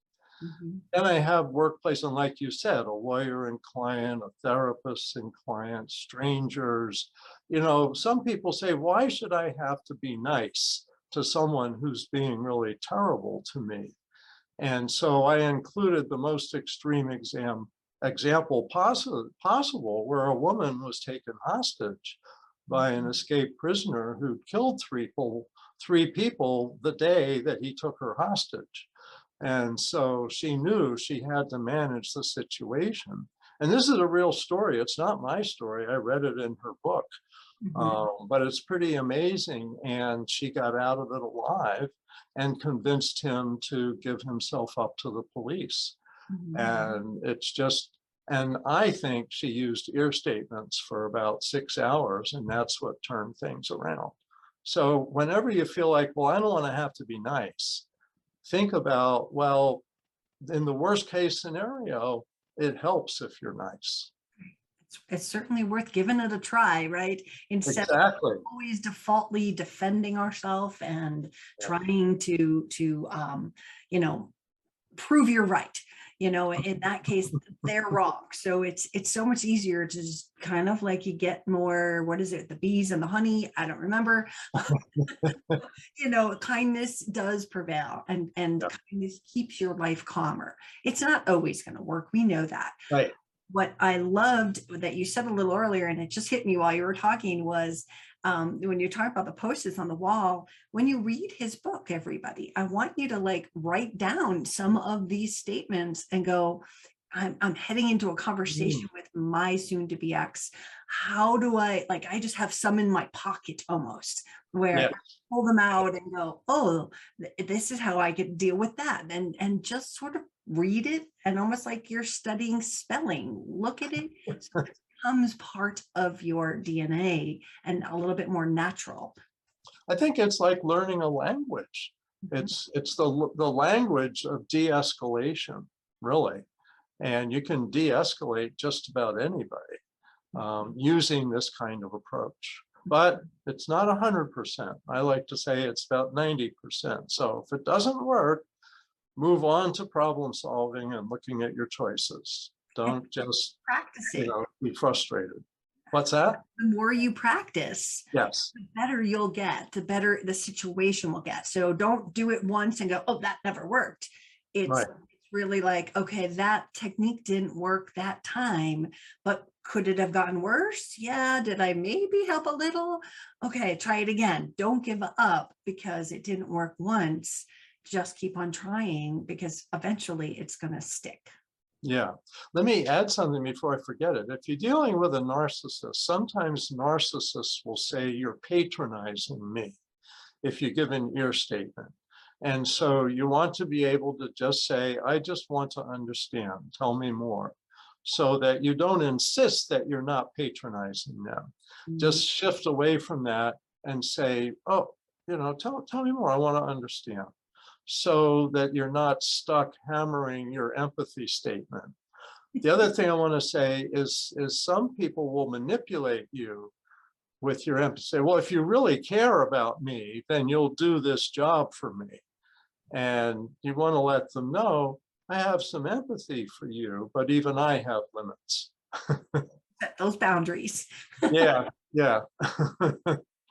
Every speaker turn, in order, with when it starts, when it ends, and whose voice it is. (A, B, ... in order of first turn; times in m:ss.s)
0:00.4-0:00.8 A
0:00.9-0:14.0 B
0:14.6-0:28.9 B
0:29.4-0:37.1 B
0:37.6-0:38.0 A
0:37.7-0:46.0 B
0:46.3-0:46.9 A
0:46.5-0:57.8 B
0:58.4-0:59.8 B
1:00.4-1:04.1 B
1:04.9-1:14.3 A
1:07.7-1:08.4 B
1:15.0-1:32.9 A
1:33.5-2:09.2 A
1:48.6-1:48.8 B
1:54.7-1:55.0 B
2:09.9-2:16.5 B
2:17.0-2:19.8 B
2:20.3-2:28.5 B
2:29.2-2:33.6 B
2:33.7-2:34.3 A
2:34.1-2:36.4 B
2:36.4-3:01.3 A
2:38.1-2:38.5 B
3:01.8-3:09.8 B
3:10.4-3:27.3 B
3:21.9-3:22.2 A
3:27.9-3:32.0 B
3:32.6-3:36.7 B
3:37.4-3:42.2 B
3:42.9-3:49.5 B
3:49.8-3:51.6 A
3:51.3-3:53.2 B